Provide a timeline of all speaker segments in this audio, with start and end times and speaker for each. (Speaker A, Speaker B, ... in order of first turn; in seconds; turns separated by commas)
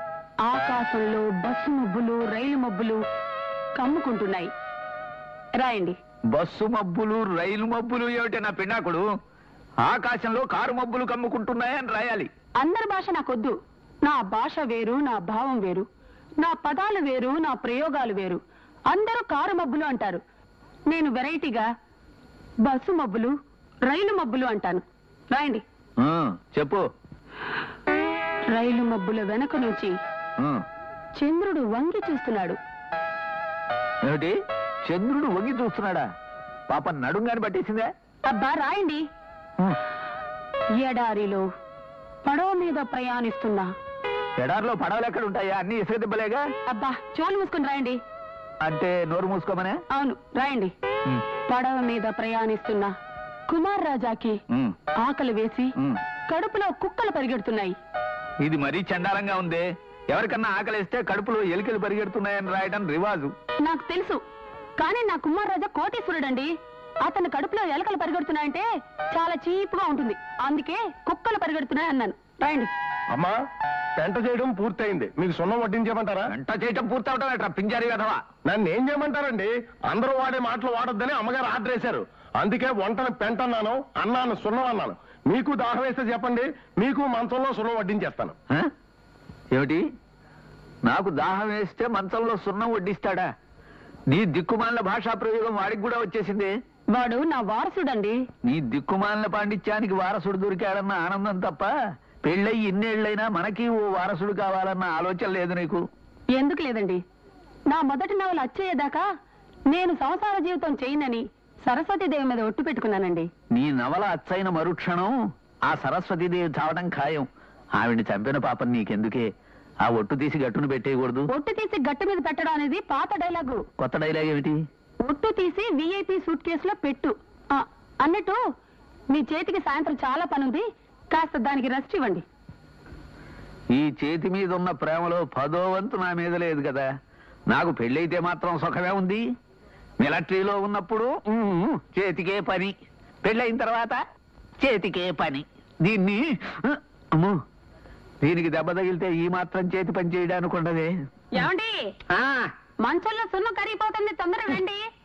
Speaker A: 0.4-3.0, Speaker A: 3.8-4.5, Speaker A: 5.6-6.0, Speaker B: 6.3-9.0, Speaker B: 9.8-12.3, Speaker A: 12.6-15.8, Speaker A: 16.4-18.4, Speaker A: 18.9-20.2, Speaker A: 20.9-21.6, Speaker A: 22.6-23.3, Speaker A: 23.9-25.6, Speaker B: 26.0-26.8, Speaker A: 28.5-29.9, Speaker A: 31.1-32.6, Speaker B: 34.0-36.0, Speaker B: 36.7-37.9, Speaker A: 38.2-39.0, Speaker A: 40.8-41.4, Speaker A: 42.2-43.7, Speaker B: 44.4-46.4, Speaker A: 46.7-48.0, Speaker B: 48.6-49.8, Speaker A: 49.9-50.7, Speaker A: 51.5-52.9, Speaker A: 53.5-54.4, Speaker B: 54.5-54.7, Speaker A: 55.0-55.7, Speaker A: 56.3-57.7, Speaker B: 58.4-63.3, Speaker A: 63.6-64.2, Speaker A: 64.8-66.5, Speaker A: 67.0-72.7, Speaker C: 73.1-73.4, Speaker C: 74.0-76.3, Speaker B: 76.3-78.2, Speaker C: 78.4-88.3, Speaker B: 89.5-89.8, Speaker B: 90.8-93.3, Speaker B: 94.1-96.5, Speaker A: 96.9-98.2, Speaker B: 98.4-101.7, Speaker B: 102.2-105.8, Speaker A: 106.3-107.0, Speaker A: 107.7-109.0, Speaker A: 109.7-113.3, Speaker B: 113.5-115.1, Speaker B: 115.7-119.3, Speaker B: 119.8-121.3, Speaker A: 121.3-123.6, Speaker B: 123.8-124.6, Speaker A: 125.0-128.4, Speaker A: 129.1-132.2, Speaker B: 133.7-136.9, Speaker B: 137.5-139.2, Speaker B: 140.0-142.7, Speaker B: 143.2-144.0, Speaker B: 144.6-147.4, Speaker B: 148.2-150.9, Speaker A: 151.3-151.9, Speaker B: 152.1-152.5, Speaker A: 152.8-154.8